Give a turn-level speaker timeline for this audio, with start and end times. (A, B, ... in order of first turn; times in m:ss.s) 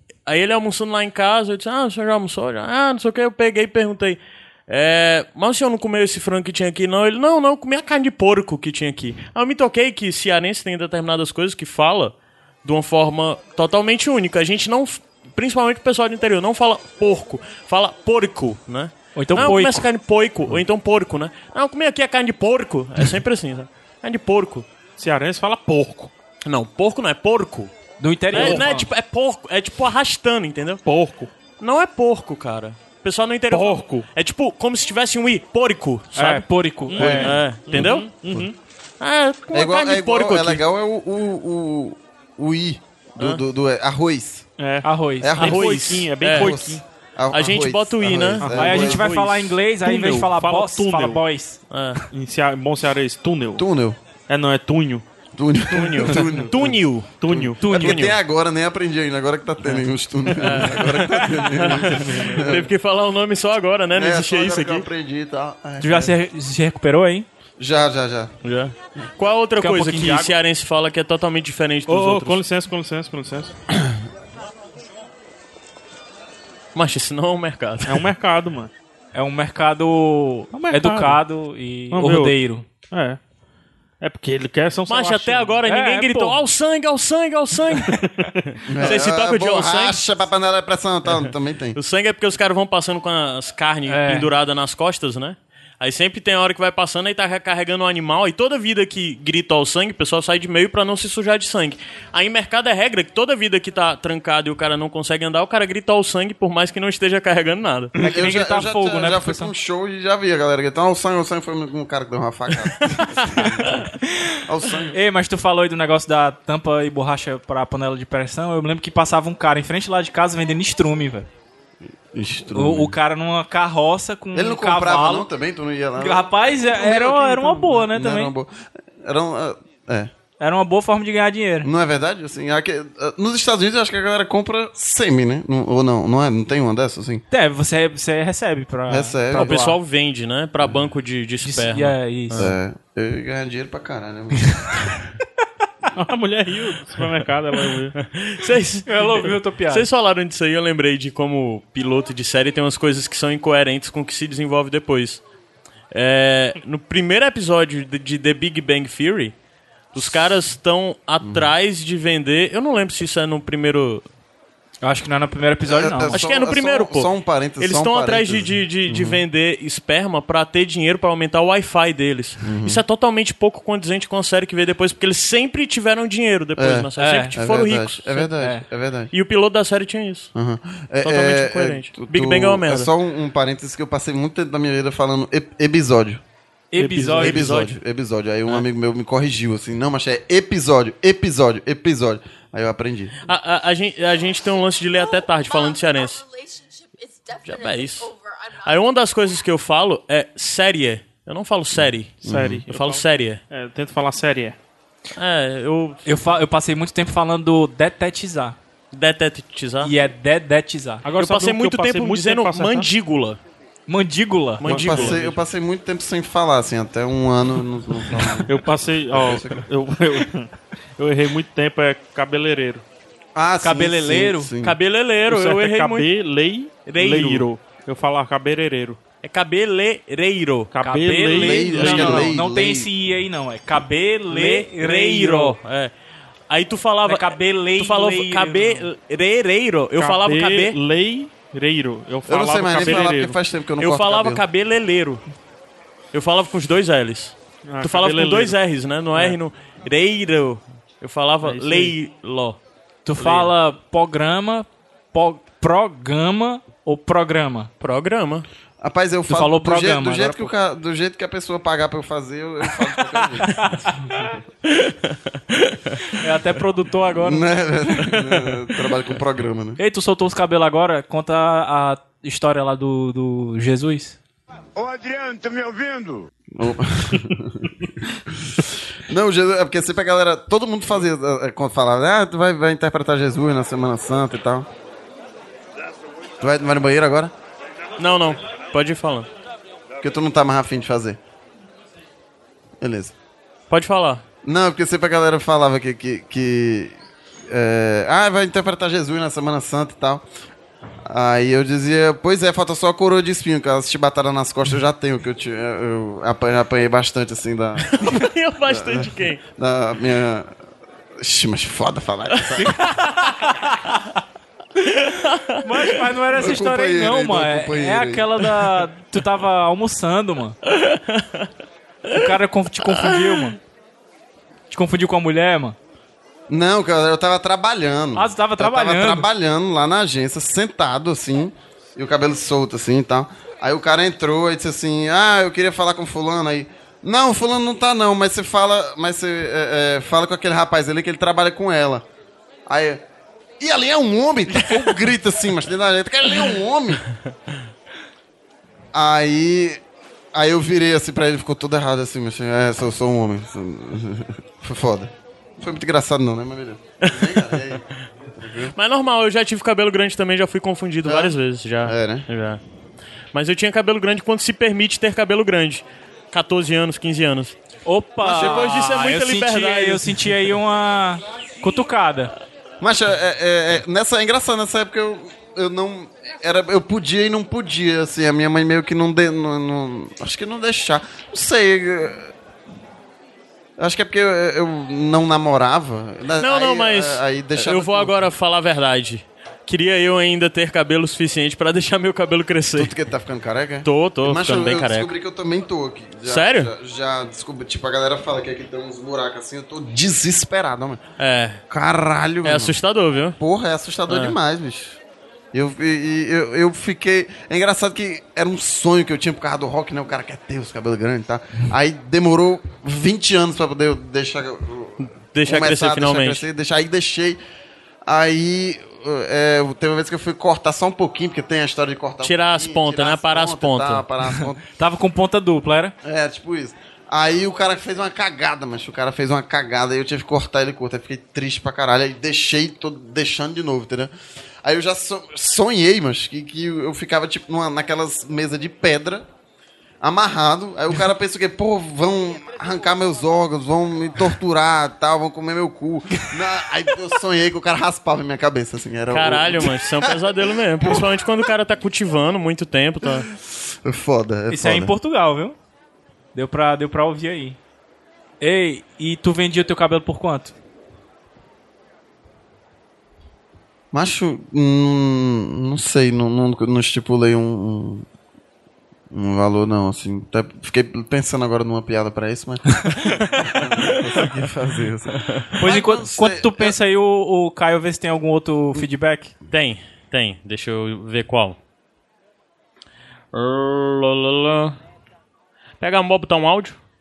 0:00.3-0:24.7 A
0:19.2-0:19.9 B
0:25.0-0:26.1 C
0:26.4-0:27.7 A
0:28.0-0:28.9 B
0:28.3-0:30.8 A
0:28.3-0:28.7 C
0:30.8-0:31.3 C
0:31.6-0:36.5 A
0:33.5-0:34.1 C
0:36.1-0:37.4 B
0:36.9-0:38.6 C
0:37.0-0:38.5 D
0:37.1-0:38.1 A
0:39.0-0:40.6 A
0:39.5-0:44.5 D
0:44.6-0:46.8 C
0:44.8-0:45.4 B
0:45.2-0:49.0 D
0:45.4-0:46.6 A
0:47.3-0:49.6 A
0:48.4-0:49.0 C
0:48.5-0:51.6 B
0:49.8-0:51.2 C
0:51.7-0:52.0 A
0:52.1-0:53.6 C
0:53.6-0:54.0 D
0:54.3-0:55.1 C
0:55.4-1:02.6 D
0:55.7-0:58.2 A
0:56.1-0:56.5 C
0:57.2-0:58.0 C
1:00.4-1:04.9 A
1:01.9-1:02.5 C
1:03.9-1:06.1 D
1:05.8-1:07.3 B
1:07.6-1:08.3 D
1:08.4-1:12.4 A
1:09.6-1:10.3 B
1:11.9-1:13.5 C
1:16.8-1:18.0 A
1:17.9-1:18.7 C
1:19.1-1:22.7 B
1:20.5-1:21.2 C
1:21.9-1:22.4 C
1:22.9-1:23.2 C
1:24.0-1:25.6 C
1:24.9-1:28.0 A
1:25.6-1:26.4 B
1:27.9-1:28.3 C
1:28.7-1:31.8 D
1:28.8-1:30.0 A
1:31.8-1:47.9 A
1:33.9-1:34.3 B
1:48.0-1:49.5 B
1:48.0-1:53.8 D
1:54.5-1:55.0 D
1:54.9-2:01.3 B
2:02.1-2:03.0 D
2:02.5-2:05.3 B
2:04.3-2:10.1 D
2:06.0-2:08.3 B
2:10.4-2:11.7 B
2:11.6-2:17.2 D
2:17.3-2:19.8 B
2:18.9-2:19.6 D
2:19.3-2:22.5 A
2:21.4-2:22.5 B
2:22.4-2:24.6 D
2:26.0-2:28.0 C
2:28.0-2:35.2 A
2:28.9-2:29.9 B
2:35.9-2:39.4 A
2:39.9-2:44.0 A
2:41.2-2:41.5 D
2:44.8-2:46.2 B
2:45.7-2:49.2 D
2:46.1-2:58.3 A
2:52.4-2:52.8 D
2:56.6-2:59.1 D
2:57.0-2:57.4 B
2:58.4-2:58.6 B
2:59.1-3:00.3 A
3:00.4-3:06.2 D
3:01.0-3:02.9 A
3:06.7-3:07.7 B
3:06.8-3:07.3 C
3:07.1-3:13.2 D
3:13.2-3:16.2 A
3:17.4-3:23.4 A
3:22.2-3:22.6 D
3:22.2-3:24.6 C
3:25.2-3:26.2 A
3:26.0-3:28.6 B
3:28.9-3:29.9 A
3:29.8-3:31.1 B
3:31.0-3:32.9 C
3:31.2-3:33.4 A
3:33.9-3:34.7 B
3:34.6-3:35.2 A
3:34.7-3:35.3 C
3:34.7-3:38.5 D
3:38.5-3:42.8 C
3:39.1-3:39.6 D
3:43.4-3:44.8 D
3:43.6-3:44.5 B
3:44.6-3:46.1 A
3:45.3-3:49.0 C
3:46.9-3:47.5 A
3:49.2-3:50.7 A
3:50.7-3:52.3 C
3:50.8-3:55.6 B
3:51.3-3:52.9 D
3:54.3-3:55.9 A
3:56.5-4:00.8 A
3:57.0-3:58.9 B
4:00.0-4:03.4 C
4:02.3-4:04.4 D
4:03.8-4:05.2 A
4:06.1-4:12.6 A
4:07.6-4:08.6 C
4:11.4-4:12.0 C
4:13.0-4:17.7 B
4:13.2-4:13.5 A
4:17.8-4:18.5 A
4:18.8-4:23.8 D
4:19.3-4:20.5 B
4:23.4-4:24.1 B
4:25.6-4:25.9 A
4:26.2-4:27.4 B
4:27.2-4:29.8 D
4:29.8-4:34.2 B
4:36.6-4:37.7 D
4:38.3-4:44.7 D
4:46.4-4:47.3 D
4:48.0-4:49.3 A
4:50.0-4:51.2 D
4:52.8-4:53.2 D
4:53.7-4:54.2 A
4:54.4-4:57.0 D
4:57.5-5:00.2 D
5:01.1-5:08.2 D
5:07.9-5:09.4 A
5:08.7-5:10.6 D
5:11.2-5:12.7 D
5:15.1-5:15.4 A
5:15.6-5:20.6 B
5:16.4-5:18.4 D
5:20.8-5:21.5 A
5:22.1-5:23.6 B
5:23.0-5:23.5 A
5:24.7-5:25.8 B
5:26.5-5:42.0 D
5:28.2-5:29.3 B
5:42.7-5:43.0 D
5:43.6-5:47.0 D
5:48.9-5:49.8 D
5:50.3-5:57.8 D
5:57.0-5:57.6 A
5:58.4-5:58.7 D
5:58.8-6:02.6 A
6:01.0-6:02.3 D
6:03.3-6:07.6 A
6:07.9-6:12.3 B
6:08.2-6:08.7 D
6:08.2-6:10.3 A
6:12.8-6:22.3 D
6:23.8-6:28.2 D
6:26.4-6:32.9 A
6:32.8-6:41.0 D
6:33.8-6:35.1 A
6:36.2-6:36.7 A
6:41.2-6:41.6 A
6:41.7-6:42.8 D
6:42.4-6:43.4 A
6:43.4-6:45.0 D
6:44.1-6:44.4 A
6:45.5-6:57.4 D
6:55.3-6:56.4 A
6:58.0-7:04.6 D
7:02.2-7:04.0 A
7:04.8-7:06.0 B
7:06.0-7:19.3 D
7:20.0-7:30.2 D
7:29.1-7:33.3 A
7:33.8-7:34.9 D
7:34.5-7:35.6 B
7:36.3-7:37.6 B
7:38.4-7:40.5 B
7:43.9-7:48.1 D
7:49.1-7:52.8 D
7:53.4-7:56.8 D
7:55.6-7:59.3 B
7:59.5-8:01.6 A
8:03.3-8:04.8 A
8:05.8-8:06.8 A